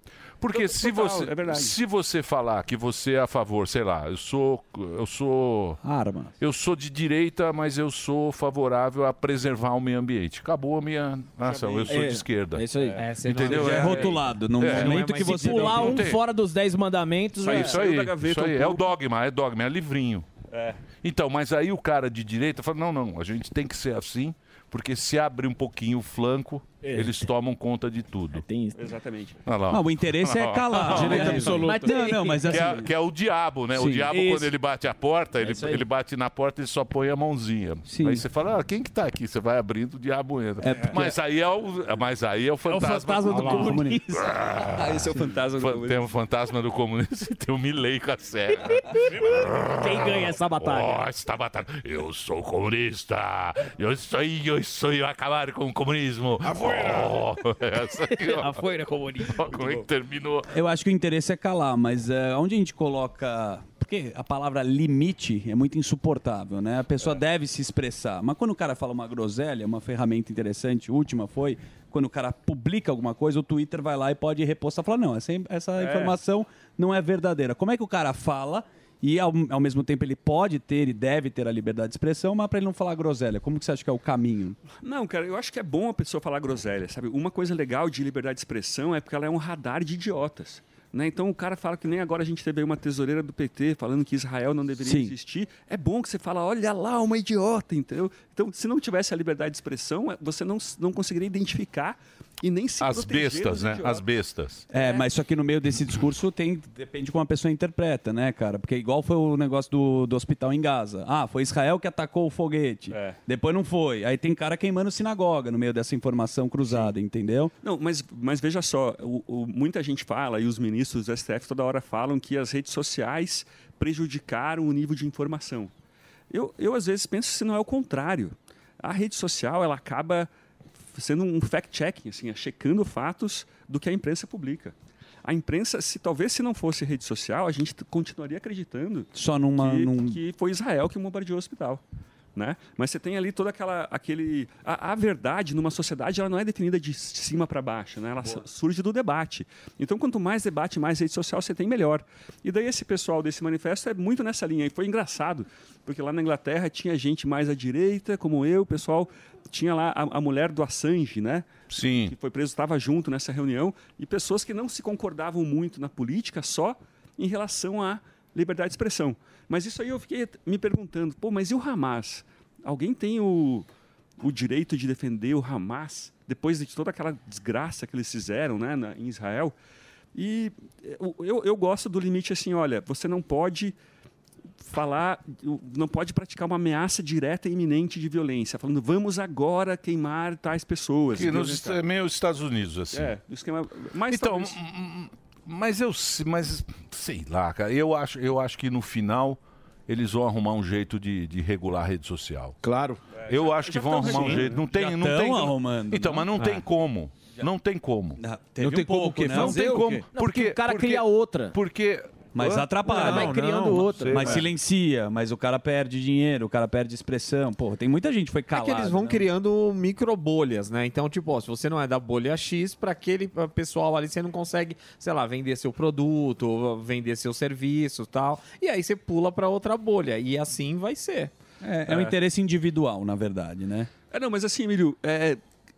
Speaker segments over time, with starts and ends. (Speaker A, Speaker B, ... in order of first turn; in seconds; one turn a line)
Speaker A: 0.4-5.8
Speaker B: 0.5-1.8
Speaker C: 5.8-6.3
Speaker A: 6.4-12.7
Speaker B: 11.4-12.1
Speaker D: 11.9-13.9
Speaker C: 11.9-12.2
Speaker B: 12.7-14.2
Speaker E: 13.0-14.0
Speaker A: 13.3-15.0
Speaker C: 13.4-16.0
Speaker E: 14.6-15.9
Speaker D: 14.8-17.8
Speaker A: 15.7-16.2
Speaker B: 17.4-18.9
Speaker A: 17.4-20.2
Speaker B: 20.5-20.8
Speaker A: 21.0-28.4
Speaker D: 28.4-28.8
Speaker B: 28.7-29.4
Speaker A: 29.4-31.7
Speaker C: 29.7-32.9
Speaker D: 31.0-32.7
Speaker F: 31.0-31.9
Speaker A: 32.5-58.6
Speaker C: 33.7-34.5
Speaker D: 35.4-35.8
Speaker C: 37.9-38.2
Speaker C: 40.6-41.2
Speaker D: 42.7-43.9
Speaker C: 42.8-44.3
Speaker B: 44.8-46.1
Speaker D: 49.8-51.0
Speaker F: 56.7-57.1
Speaker D: 58.3-59.8
Speaker A: 59.2-60.5
Speaker C: 60.5-84.6
Speaker B: 75.8-76.2
Speaker B: 84.8-104.0
Speaker C: 94.8-95.1
Speaker A: 102.8-104.7
Speaker C: 104.7-117.5
Speaker B: 104.7-105.1
Speaker B: 112.9-113.2
Speaker B: 116.6-116.9
Speaker B: 117.6-125.7
Speaker B: 126.3-130.3
Speaker B: 130.9-141.8
Speaker C: 139.1-140.2
Speaker B: 142.3-173.7
Speaker A: 161.7-162.1
Speaker B: 174.2-179.5
Speaker B: 180.1-183.7
Speaker B: 184.6-191.8
Speaker A: 191.1-193.2
Speaker B: 192.9-194.6
Speaker A: 194.1-202.6
Speaker F: 202.6-203.0
Speaker B: 203.1-204.6
Speaker A: 203.3-208.2
Speaker C: 204.6-206.6
Speaker C: 208.2-209.8
Speaker F: 208.6-210.1
Speaker A: 209.3-212.3
Speaker D: 210.1-211.6
Speaker C: 212.3-219.3
Speaker F: 212.4-214.4
Speaker D: 212.8-214.4
Speaker A: 214.0-214.4
Speaker E: 218.5-231.3
Speaker C: 231.6-233.9
Speaker B: 231.9-232.1
Speaker B: 234.1-235.4